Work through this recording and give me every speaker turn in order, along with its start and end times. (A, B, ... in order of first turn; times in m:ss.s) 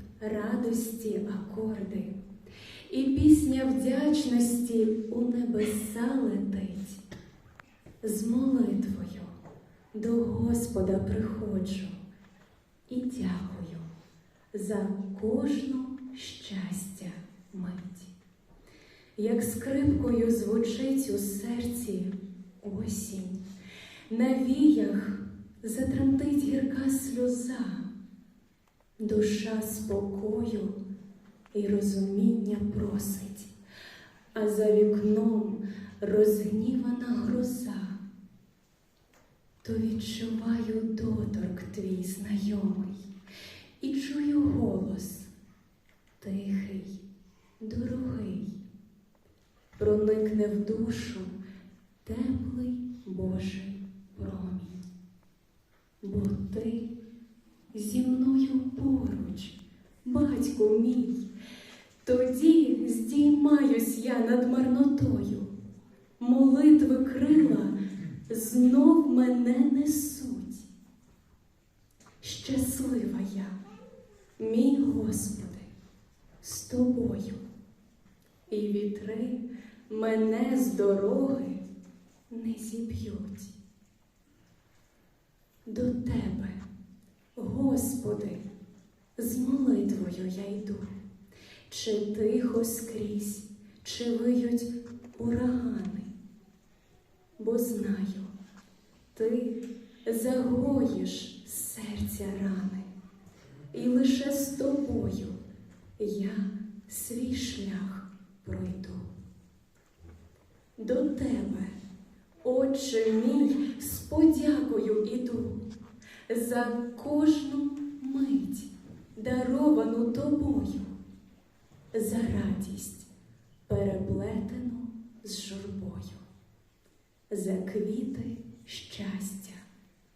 0:00.2-0:02.1 A
0:02.9-0:07.0 A
0:08.0-0:09.3 A
0:09.9-0:12.0 A
0:12.9-0:13.8 A
0:14.5-0:18.1 A
0:19.2-0:23.4 A
0:24.1-0:27.9 A
0:29.0-0:30.8 A
0:31.5-0:33.5 A
0:34.3-0:38.0 A
0:39.6-0:43.0 A
0:43.8-0:45.3 A
0:46.2-0:47.0 A
0:47.6-0:48.5 A
0:49.8-0:51.3 A
0:52.0-0:54.8 A
0:56.0-0:56.9 A
0:57.7-1:01.2 A
1:02.0-1:05.5 A
1:06.2-1:07.8 A
1:08.3-1:10.7 A
1:12.2-1:13.5 A
1:14.4-1:15.7 A
1:16.4-1:17.4 A
1:18.5-1:21.6 A
1:22.3-1:23.6 A
1:25.7-1:26.6 A
1:27.4-1:28.4 A
1:29.2-1:30.9 A
1:31.7-1:36.1 A
1:37.4-1:38.3 A
1:39.1-1:42.9 A
1:43.7-1:45.4 A
1:46.0-1:49.1 A
1:50.8-1:51.7 A
1:52.4-1:55.6 A
1:56.3-2:00.9 A
2:01.9-2:03.1 A
2:03.7-2:06.2 A
2:07.3-2:09.6 A